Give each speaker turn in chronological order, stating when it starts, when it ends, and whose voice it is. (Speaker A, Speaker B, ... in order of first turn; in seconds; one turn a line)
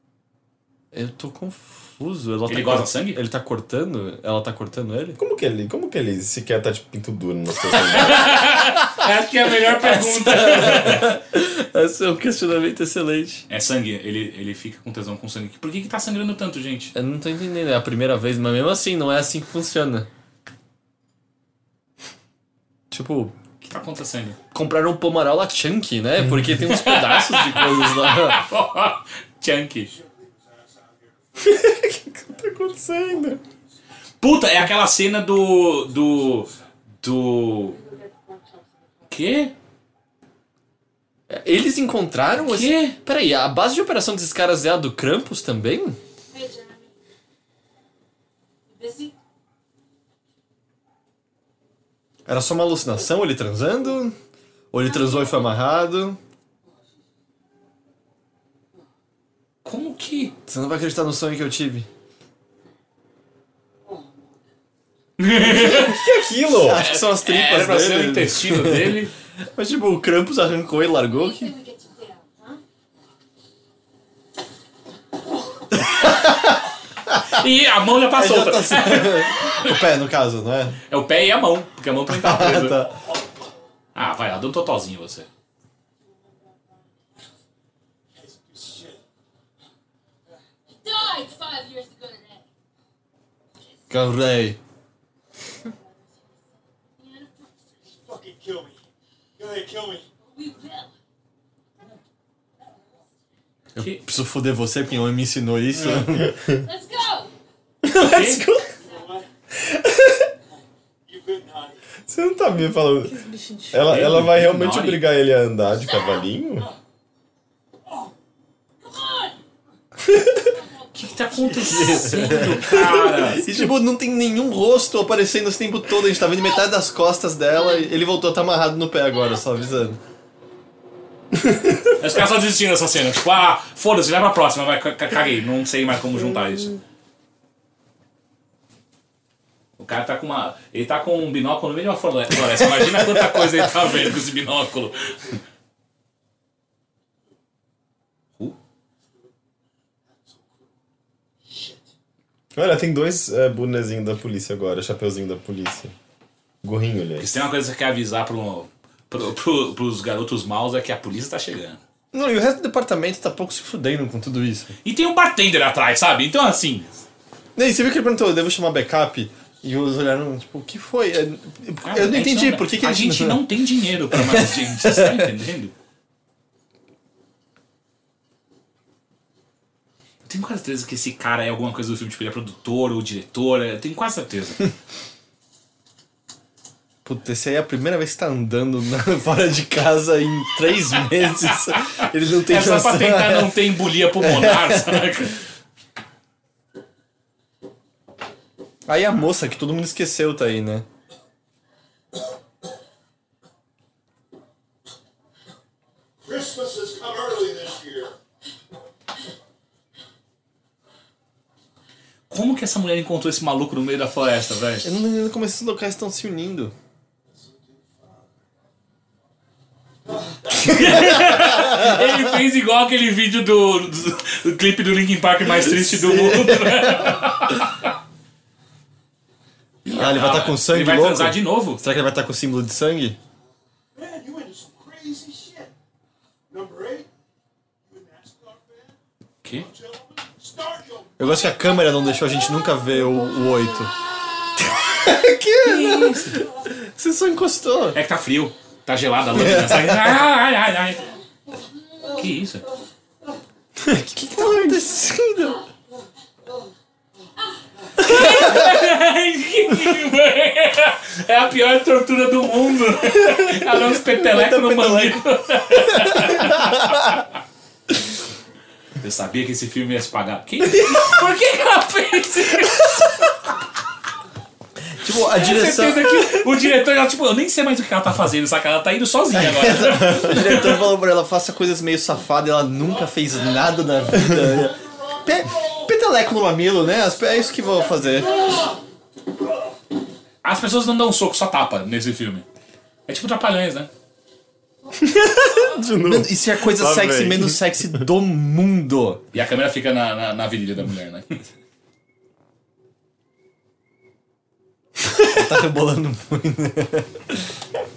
Speaker A: 0.9-5.2
Speaker B: 2.5-3.2
Speaker C: 5.2-8.4
Speaker A: 7.9-8.9
Speaker B: 7.9-11.1
Speaker A: 9.7-13.4
Speaker B: 13.5-16.9
Speaker A: 16.9-20.1
Speaker A: 22.9-23.4
Speaker B: 23.7-24.4
Speaker A: 24.5-28.4
Speaker B: 26.7-29.9
Speaker D: 29.8-31.8
Speaker A: 31.7-33.4
Speaker B: 34.2-37.8
Speaker E: 37.7-39.1
Speaker B: 39.1-39.5
Speaker A: 41.3-46.0
Speaker B: 42.3-43.0
Speaker E: 46.3-46.9
Speaker E: 48.7-49.1
Speaker A: 52.3-54.2
Speaker A: 54.7-56.2
Speaker E: 55.0-55.4
Speaker B: 59.6-60.3
Speaker A: 60.5-61.9
Speaker B: 65.2-66.0
Speaker C: 65.4-66.8
Speaker A: 65.4-66.0
Speaker A: 66.5-71.5
Speaker B: 66.7-69.1
Speaker E: 71.1-72.6
Speaker A: 75.9-77.2
Speaker B: 77.3-79.8
Speaker A: 78.1-80.8
Speaker B: 80.9-82.8
Speaker A: 82.1-83.0
Speaker B: 84.0-85.3
Speaker F: 88.2-89.0
Speaker D: 88.2-89.0
Speaker E: 90.7-92.5
Speaker A: 93.9-94.6
Speaker E: 95.5-96.5
Speaker E: 97.0-97.8
Speaker F: 98.0-98.8
Speaker F: 99.4-100.0
Speaker E: 100.3-100.9
Speaker A: 103.8-106.4
Speaker B: 105.8-106.1
Speaker C: 106.2-106.6
Speaker E: 106.5-107.3
Speaker A: 107.8-108.7
Speaker B: 108.0-108.5
Speaker F: 108.8-109.3
Speaker F: 111.1-111.8
Speaker C: 112.1-116.7
Speaker E: 113.2-113.6
Speaker B: 113.9-115.0
Speaker E: 115.8-116.3
Speaker E: 118.8-119.4
Speaker E: 120.3-122.2
Speaker B: 120.9-123.6
Speaker A: 121.5-130.0
Speaker B: 132.0-136.8
Speaker B: 139.8-145.4
Speaker A: 143.1-143.4
Speaker C: 152.6-155.9
Speaker C: 156.6-157.4
Speaker B: 157.2-161.8
Speaker A: 162.1-164.8
Speaker B: 164.8-167.0
Speaker A: 167.6-173.5
Speaker B: 171.8-175.7
Speaker A: 174.1-175.3
Speaker B: 180.2-184.7
Speaker A: 187.1-193.6
Speaker B: 191.7-195.4
Speaker A: 194.1-195.2
Speaker A: 198.9-200.9
Speaker D: 206.2-208.1
Speaker B: 212.3-214.9
Speaker A: 214.8-216.7
Speaker B: 220.6-227.9
Speaker A: 220.7-222.0
Speaker A: 225.5-227.2
Speaker B: 229.8-231.8
Speaker A: 229.9-233.2
Speaker D: 233.9-235.7
Speaker D: 236.5-237.1
Speaker D: 237.8-239.0
Speaker B: 239.4-239.7
Speaker D: 239.6-241.6
Speaker A: 241.2-243.9
Speaker A: 244.6-248.0
Speaker B: 245.6-246.4
Speaker B: 247.9-251.1
Speaker A: 249.3-250.2
Speaker B: 252.2-252.6
Speaker C: 253.8-254.8
Speaker A: 254.1-255.6
Speaker B: 258.0-267.3
Speaker A: 258.1-258.8
Speaker A: 263.3-265.2
Speaker A: 265.8-267.1
Speaker B: 269.0-273.1
Speaker A: 274.9-276.5
Speaker B: 275.2-280.9
Speaker A: 279.3-288.3
Speaker D: 283.6-285.9
Speaker D: 287.6-288.8
Speaker B: 290.4-292.4
Speaker B: 293.1-293.9
Speaker C: 295.0-298.0
Speaker A: 296.0-299.2
Speaker B: 299.3-301.4
Speaker A: 305.2-307.5